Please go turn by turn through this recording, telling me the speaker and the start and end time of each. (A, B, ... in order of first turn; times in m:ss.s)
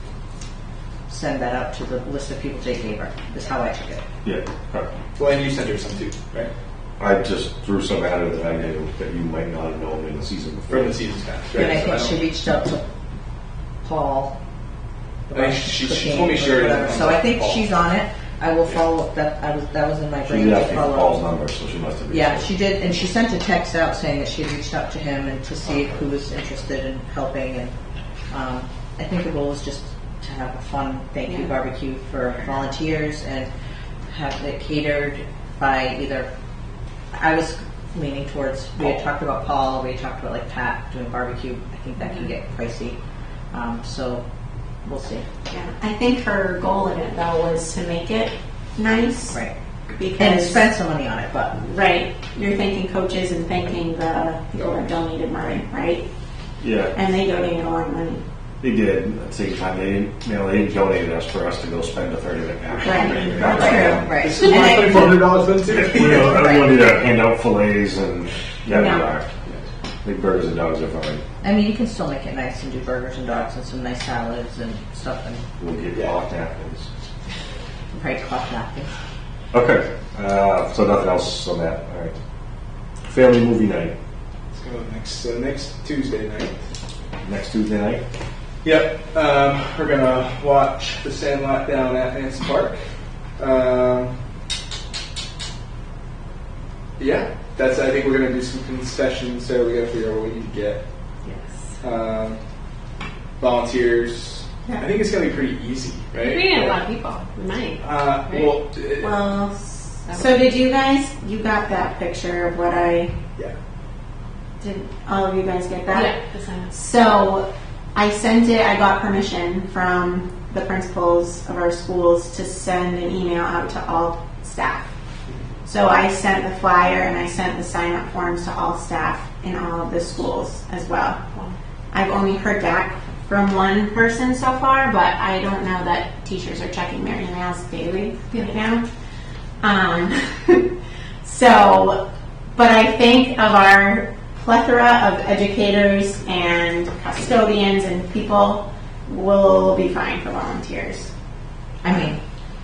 0:01.1-0:04.0 A
0:04.2-0:04.9 B
0:05.2-0:06.5 C
0:07.0-0:11.0 B
0:10.7-0:12.2 C
0:11.5-0:12.8 A
0:13.8-0:14.3 A
0:15.3-0:21.2 A
0:15.3-0:17.7 C
0:20.2-0:22.5 B
0:22.1-0:27.8 A
0:28.3-0:33.5 A
0:34.1-0:36.3 A
0:37.2-0:43.0 A
0:43.5-0:44.2 A
0:44.8-0:45.2 A
0:45.5-0:49.4 D
0:49.9-0:50.7 D
0:50.2-0:51.6 A
0:51.6-0:56.0 D
0:56.6-0:56.9 B
0:56.9-0:58.2 D
0:58.6-1:04.2 B
1:02.8-1:04.0 D
1:02.9-1:06.4 C
1:03.4-1:06.9 A
1:05.7-1:09.3 B
1:08.7-1:09.1 D
1:10.0-1:11.2 B
1:11.4-1:15.4 A
1:15.6-1:16.9 B
1:17.9-1:18.9 A
1:19.5-1:22.2 B
1:23.1-1:23.9 B
1:24.5-1:26.6 C
1:27.2-1:28.0 B
1:28.6-1:32.8 C
1:33.4-1:34.2 C
1:37.0-1:40.8 C
1:41.2-1:41.7 E
1:41.8-1:42.4 C
1:43.4-1:46.8 C
1:46.2-1:48.6 E
1:47.8-1:49.2 C
1:49.0-1:53.2 D
1:54.6-1:56.1 D
1:55.9-1:56.8 E
1:56.7-2:04.9 D
2:05.6-2:11.2 D
2:11.9-2:18.8 D
2:18.3-2:18.6 E
2:19.6-2:20.7 D
2:21.2-2:22.0 D
2:22.6-2:31.1 D
2:31.8-2:32.2 A